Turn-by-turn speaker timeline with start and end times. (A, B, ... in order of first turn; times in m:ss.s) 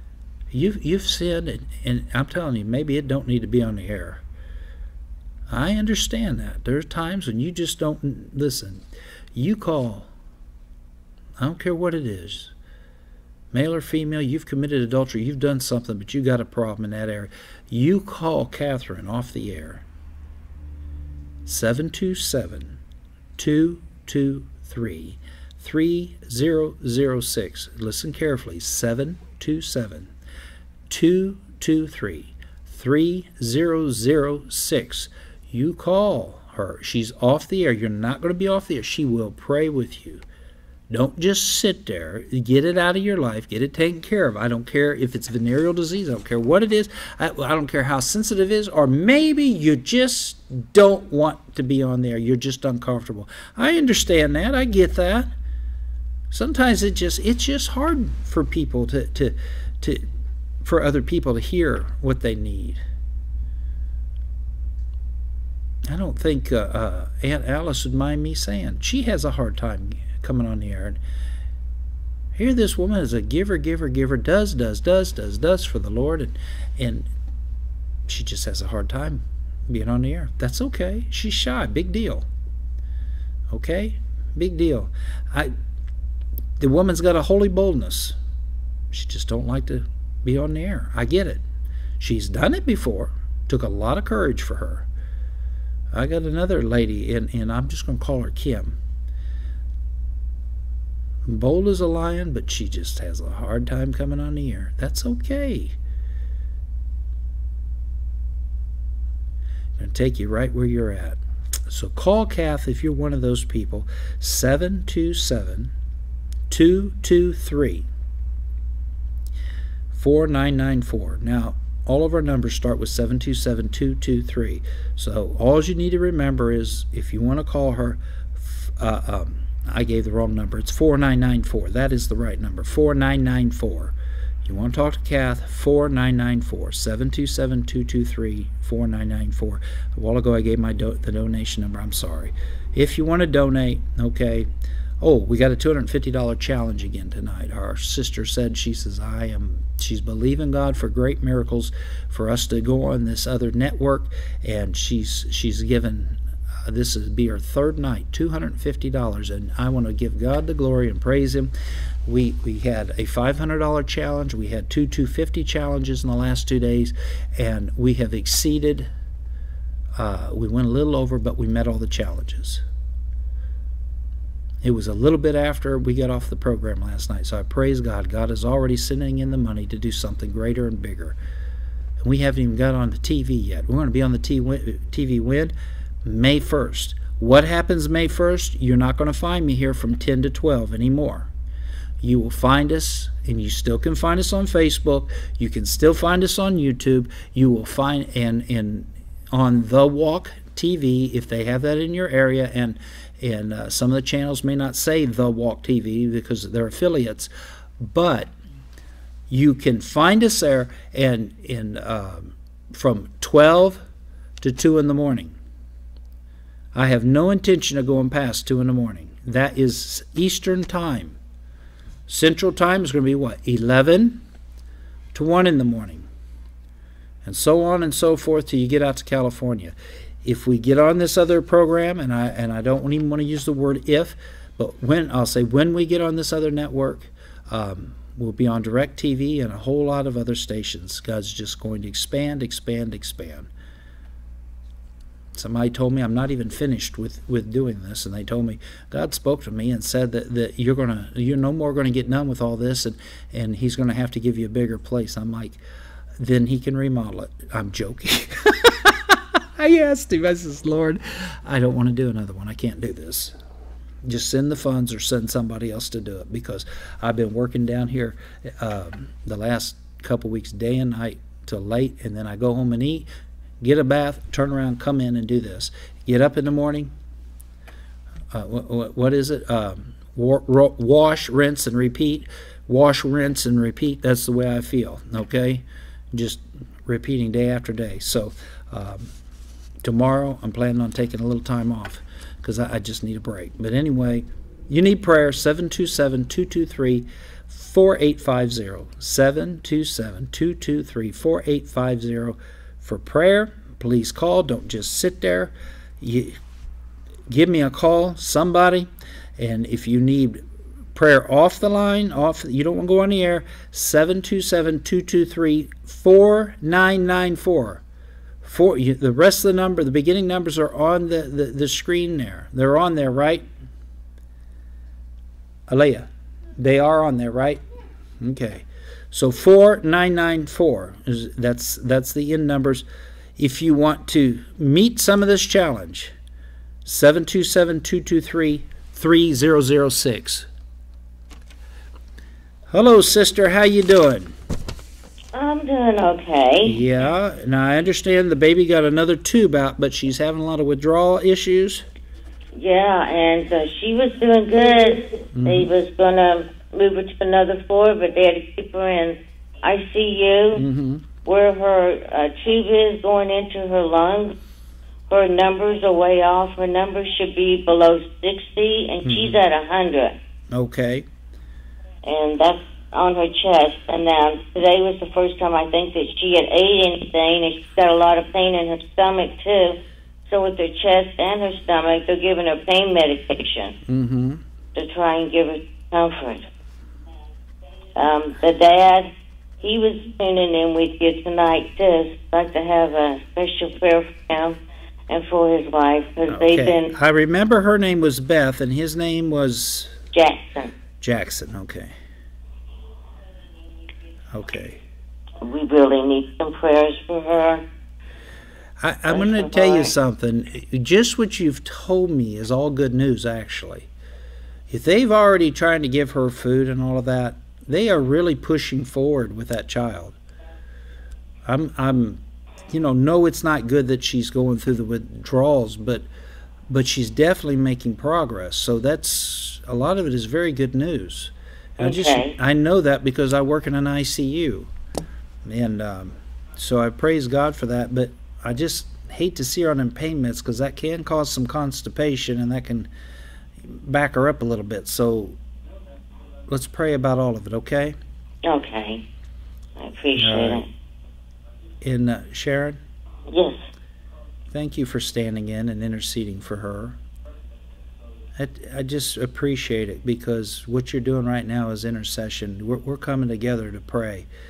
0:00.5-0:04.2 A
0:05.5-0:08.8 A
0:09.4-0:10.1 A
0:11.4-0:12.5 A
0:13.5-0:19.8 A
0:21.5-0:22.8 A
0:23.4-0:30.1 A
0:30.9-0:40.2 A
0:40.9-0:55.3 A
0:56.3-1:00.0 A
1:00.6-1:02.8 A
1:05.9-1:11.0 A
1:12.4-1:17.1 A
1:18.1-1:22.2 A
1:23.5-1:25.5 A
1:26.6-1:28.1 A
1:28.9-1:31.4 A
1:32.0-1:34.9 A
1:35.9-1:38.8 A
1:41.2-1:45.8 A
1:49.8-1:55.7 A
1:56.5-1:57.9 A
1:59.9-2:24.5 A
2:25.0-2:41.5 A
2:42.1-2:48.9 A
2:50.0-2:52.6 A
2:54.6-3:01.2 A
3:02.0-3:05.5 A
3:06.0-3:11.3 A
3:12.0-3:28.3 A
3:29.3-3:33.8 A
3:34.4-3:35.4 A
3:36.7-3:41.2 A
3:42.1-3:44.2 A
3:45.1-3:46.1 A
3:47.2-4:03.5 A
4:05.3-4:15.6 A
4:16.2-4:23.4 A
4:24.0-4:33.1 A
4:33.6-4:36.9 A
4:38.3-4:49.1 A
4:49.8-5:06.4 A
5:07.3-5:10.4 A
5:10.9-5:17.8 A
5:18.4-5:23.5 A
5:25.7-5:27.6 A
5:28.2-5:32.8 A
5:33.4-5:36.1 A
5:36.9-5:40.5 A
5:42.7-5:44.3 A
5:45.3-5:46.8 B
5:46.6-5:51.8 A
5:52.5-6:00.6 B
5:55.3-5:55.7 A
6:00.5-6:01.1 A
6:01.2-6:04.4 B
6:05.1-6:10.2 B
6:09.0-6:09.4 A
6:10.5-6:11.1 A
6:12.0-6:23.8 B
6:23.9-6:24.4 A
6:24.7-6:26.5 B
6:28.0-6:29.1 B
6:29.6-6:34.6 B
6:35.1-6:36.9 B
6:36.3-6:40.0 A
6:40.1-6:40.7 B
6:41.0-6:41.9 A
6:44.3-6:44.8 A
6:45.4-6:47.6 B
6:48.8-6:53.9 A
6:49.1-6:49.9 B
6:54.7-7:00.2 A
7:01.4-7:06.0 A
7:06.7-7:14.7 A
7:11.8-7:12.4 B
7:15.4-7:22.9 A
7:23.6-7:25.4 A
7:26.5-7:28.0 A
7:28.4-7:29.0 B
7:29.8-7:30.7 B
7:30.2-7:30.6 A
7:31.8-7:32.8 A
7:33.3-7:33.6 B
7:34.5-7:37.0 A
7:38.4-7:44.3 A